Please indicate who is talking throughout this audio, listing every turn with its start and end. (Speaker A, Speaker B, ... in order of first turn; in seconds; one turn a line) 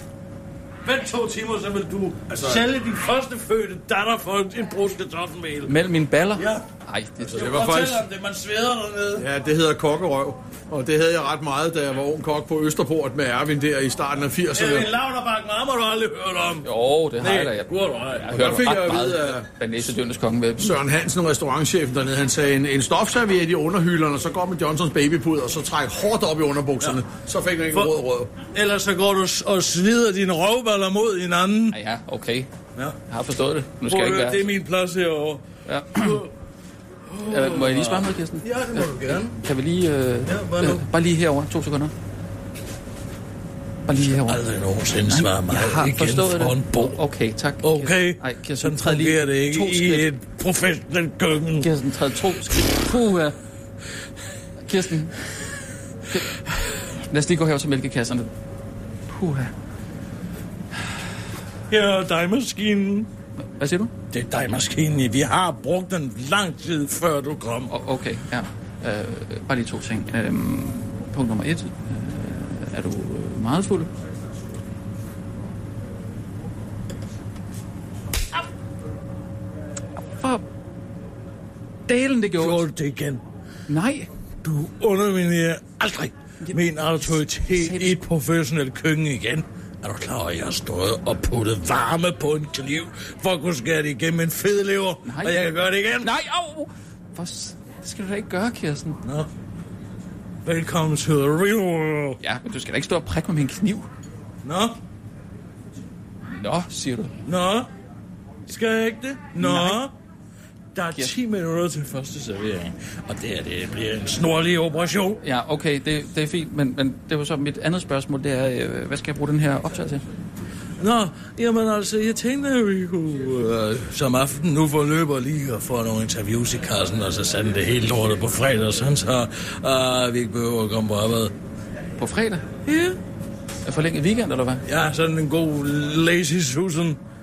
Speaker A: 0.8-5.7
Speaker B: 2.3-2.6
Speaker C: 5.7-8.0
Speaker A: 6.3-6.6
Speaker A: 7.2-9.3
Speaker B: 9.2-14.9
Speaker A: 14.5-18.7
Speaker C: 16.6-20.7
Speaker B: 18.3-19.5
Speaker B: 20.6-28.3
Speaker A: 27.7-31.8
Speaker C: 31.7-32.5
Speaker C: 33.1-34.4
Speaker A: 33.8-36.3
Speaker C: 35.7-36.2
Speaker A: 37.1-39.4
Speaker C: 37.3-41.9
Speaker A: 40.3-40.8
Speaker C: 43.9-44.4
Speaker A: 43.9-47.0
Speaker C: 45.1-50.1
Speaker A: 47.6-51.7
Speaker C: 51.6-53.4
Speaker C: 54.7-55.1
Speaker C: 56.1-56.4
Speaker C: 57.1-58.3
Speaker C: 59.1-59.5
Speaker A: 61.7-63.1
Speaker C: 63.6-63.9
Speaker A: 64.1-67.7
Speaker C: 67.7-73.9
Speaker C: 80.2-80.4
Speaker C: 81.9-82.6
Speaker A: 82.3-83.2
Speaker C: 83.7-84.1
Speaker A: 84.4-96.1
Speaker C: 86.4-88.0
Speaker C: 95.0-95.4
Speaker C: 96.0-99.0
Speaker A: 99.0-99.3
Speaker A: 100.4-102.2
Speaker C: 102.2-103.9
Speaker A: 104.4-104.8
Speaker C: 106.3-107.1
Speaker A: 107.2-107.7
Speaker A: 108.5-109.9
Speaker C: 109.4-109.8
Speaker A: 110.8-115.2
Speaker C: 115.2-120.0
Speaker A: 120.8-131.3
Speaker C: 132.0-132.5
Speaker A: 132.7-132.9
Speaker C: 133.6-134.6
Speaker A: 134.7-137.0